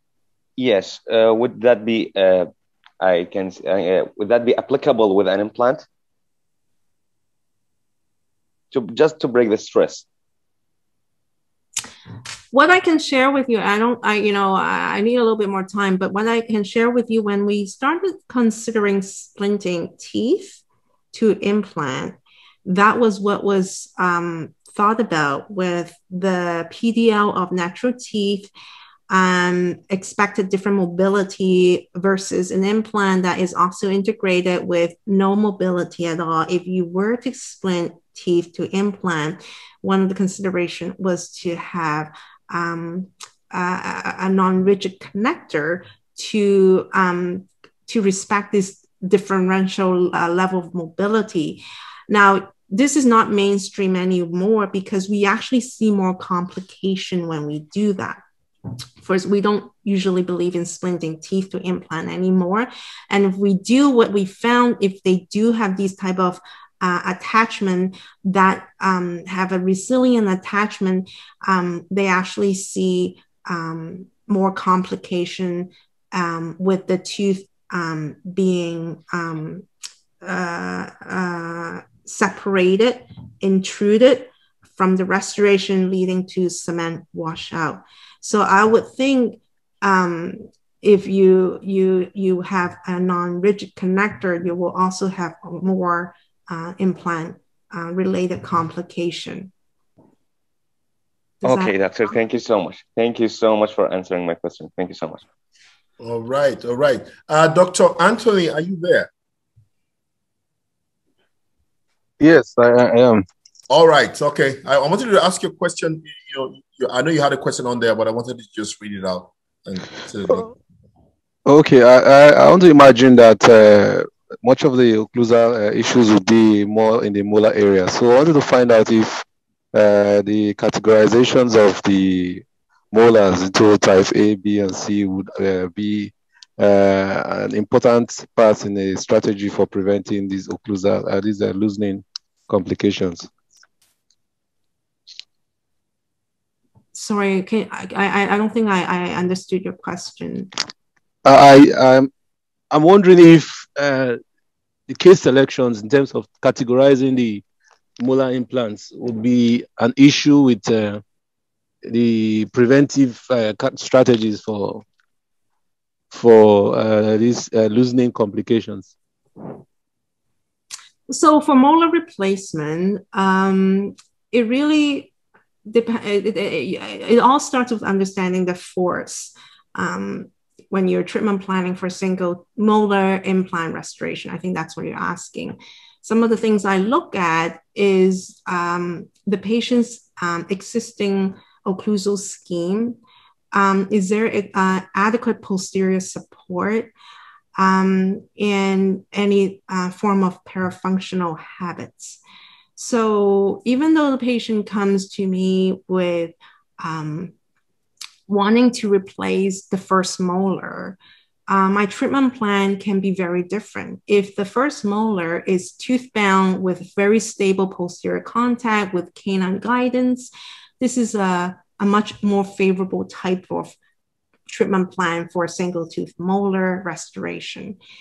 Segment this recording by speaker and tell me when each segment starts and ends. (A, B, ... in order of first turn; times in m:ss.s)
0:00.6-0:02.5 A
0:03.0-0:05.8 A
0:08.7-0:10.0 A
0:12.5-0:20.6 B
0:21.1-0:28.5 B
0:29.1-0:58.2 B
0:59.0-1:19.6 B
1:20.2-1:39.5 B
1:41.4-1:41.7 B
1:41.4-1:45.2 A
1:46.0-1:49.1 C
1:52.2-1:53.2 D
1:53.7-2:00.5 C
2:01.4-2:23.3 D
2:26.9-2:30.5 B
2:31.2-2:32.1 D
2:32.7-2:34.2 D
2:34.9-2:37.4 D
2:38.0-2:41.0 D
2:41.9-2:44.8 D
2:46.1-2:48.9 D
2:51.1-2:55.1 B
2:55.7-3:13.0 B
3:13.5-3:16.9 B
3:17.6-3:22.2 B
3:22.8-3:27.3 B
3:28.3-3:43.8 B
3:44.5-3:47.8 B